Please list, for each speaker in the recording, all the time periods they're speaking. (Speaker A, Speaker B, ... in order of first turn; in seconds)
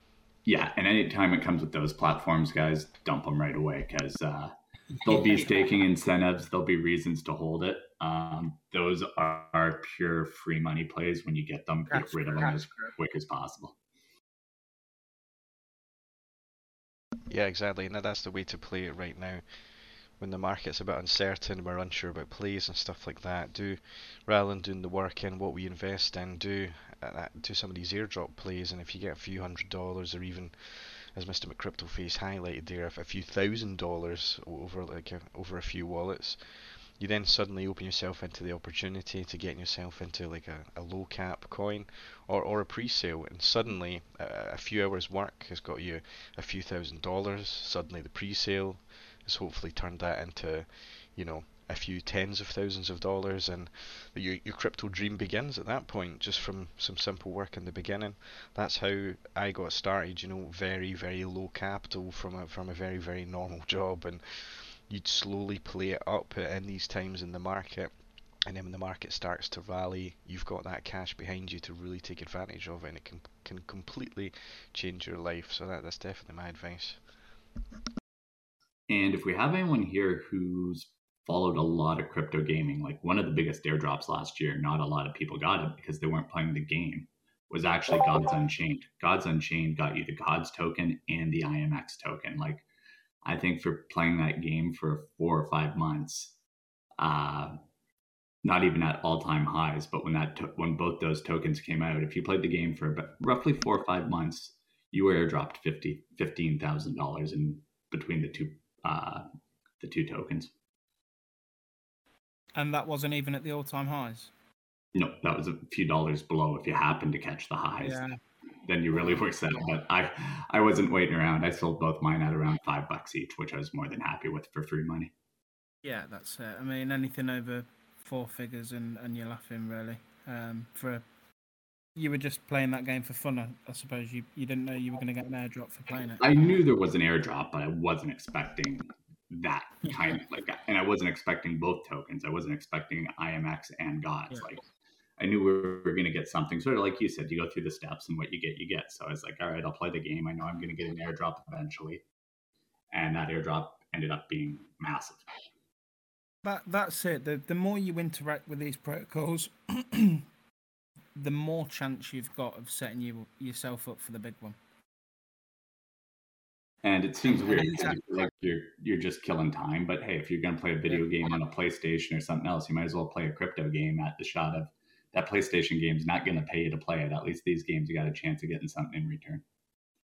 Speaker A: 0.4-13.8, 78.9-92.6, 93.2-96.3, 97.0-97.5, 98.4-109.2, 109.8-110.5, 114.9-118.0, 118.7-125.1, 136.2-144.6, 145.2-152.0, 152.9-155.3, 166.8-179.4
Speaker B: 5.0-5.7, 11.9-12.9, 112.5-114.3, 117.8-118.2, 125.8-131.0, 131.9-136.3, 156.4-160.2, 161.1-164.6, 167.4-168.0
Speaker C: 17.3-19.4, 20.2-67.9, 68.5-77.0